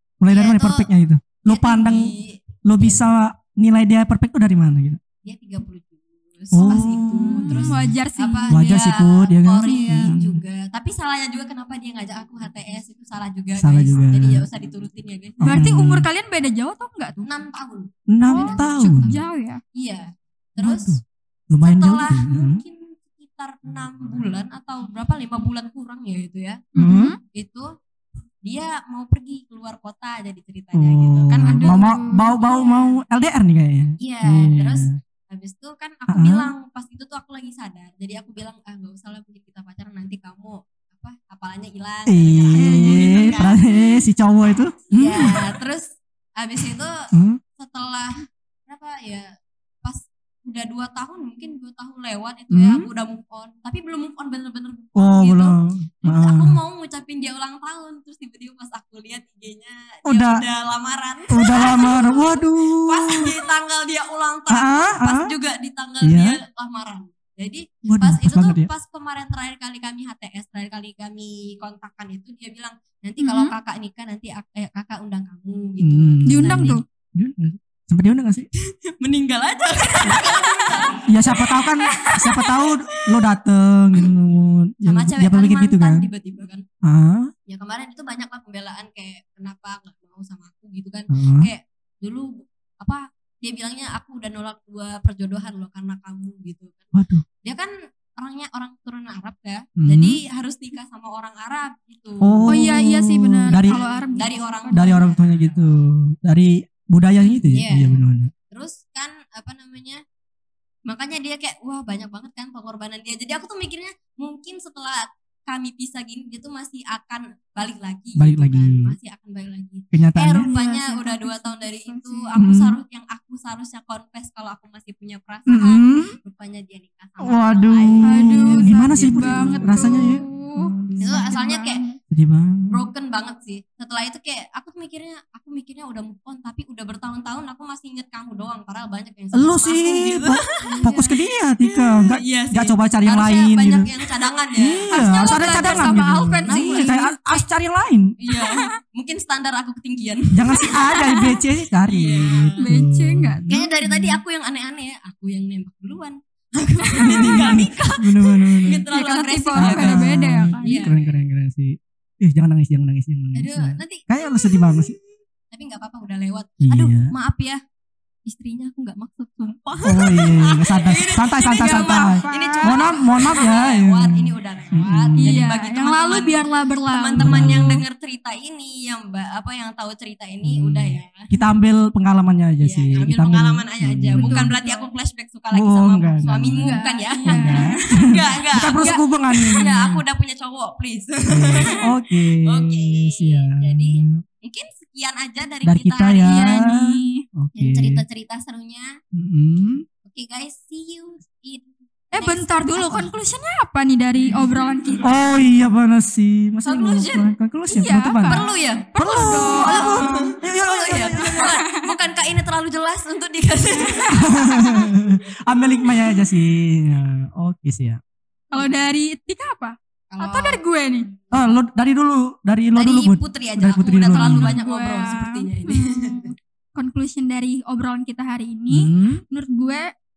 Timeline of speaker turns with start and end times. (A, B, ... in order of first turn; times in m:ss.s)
0:00.2-0:02.1 A
0:00.3-0:00.9 B
0:01.4-0:03.0 B
0:02.6-0:05.0 A
0:05.2-0:15.6 B
0:06.5-0:07.9 A
0:06.6-0:08.8 C
0:08.5-0:10.4 A
0:09.6-0:10.1 C
0:13.6-0:14.4 A
0:15.4-0:16.1 A
0:15.4-0:17.3 C
0:17.2-0:19.2 B
0:18.1-0:19.2 A
0:18.2-0:19.6 C
0:19.7-0:21.0 B
0:20.6-0:22.6 A
0:21.6-0:26.6 B
0:26.7-0:27.2 C
0:26.8-0:27.1 A
0:27.3-0:27.7 B
0:28.4-0:31.8 B
0:30.7-0:35.0 A
0:31.4-0:33.0 C
0:34.0-0:43.6 B
0:36.1-0:36.5 A
0:42.1-0:45.5 A
0:42.6-0:44.1 C
0:44.9-0:49.3 B
0:47.1-0:47.4 A
0:49.8-1:16.8 B
0:52.5-0:52.9 A
0:54.9-0:56.6 A
1:00.0-1:00.4 A
1:01.3-1:03.3 A
1:01.8-1:02.0 C
1:04.5-1:05.3 A
1:06.0-1:06.4 A
1:07.8-1:08.7 A
1:13.2-1:13.5 C
1:15.8-1:18.5 A
1:16.2-1:16.8 C
1:18.6-1:23.2 B
1:21.0-1:26.1 A
1:24.8-1:26.6 B
1:26.8-1:27.3 A
1:27.5-1:42.6 B
1:31.1-1:31.5 A
1:36.9-1:37.2 A
1:39.8-1:40.2 A
1:42.2-1:43.8 A
1:42.5-1:45.0 C
1:43.5-1:45.3 B
1:44.7-1:48.3 A
1:47.5-1:50.0 B
1:50.9-2:10.2 B
1:58.2-1:58.9 A
1:59.9-2:00.5 A
2:00.4-2:02.3 C
2:02.4-2:02.8 A
2:05.5-2:06.2 A
2:07.2-2:11.3 A
2:08.0-2:12.0 C
2:11.0-2:11.8 B
2:12.1-2:12.7 A
2:12.7-2:26.9 B
2:19.3-2:28.1 A
2:20.6-2:21.1 C
2:24.9-2:27.4 C
2:28.2-2:31.1 B
2:28.3-2:28.7 C
2:30.3-2:34.1 A
2:30.6-2:31.4 C
2:31.9-2:32.6 B
2:32.6-2:33.6 C
2:33.5-2:41.2 B
2:37.0-2:38.8 A
2:38.9-2:40.8 C
2:39.5-2:45.0 A
2:43.3-2:45.0 B
2:45.5-2:47.6 B
2:46.6-2:47.1 A
2:48.2-3:01.2 B
2:49.8-2:55.5 A
2:51.5-2:53.0 C
2:55.2-2:57.8 C
2:57.2-2:57.8 A
3:00.4-3:04.5 A
3:02.6-3:16.6 B
3:04.1-3:04.9 C
3:05.5-3:10.0 A
3:06.6-3:07.8 C
3:08.8-3:09.6 C
3:11.3-3:14.2 A
3:15.6-3:18.0 A
3:16.2-3:17.2 C
3:17.6-3:19.0 B
3:19.1-3:19.8 A
3:20.0-3:23.1 B
3:22.1-3:25.1 C
3:25.0-3:28.4 A
3:26.6-3:27.3 B
3:27.7-3:30.3 C
3:28.2-3:34.9 B
3:29.0-3:31.5 A
3:31.1-3:31.9 C
3:34.1-3:38.0 A
3:38.5-3:41.1 C
3:40.1-3:40.6 B
3:41.3-3:44.6 A
3:42.7-3:46.3 B
3:44.1-3:49.9 C
3:48.7-3:49.2 A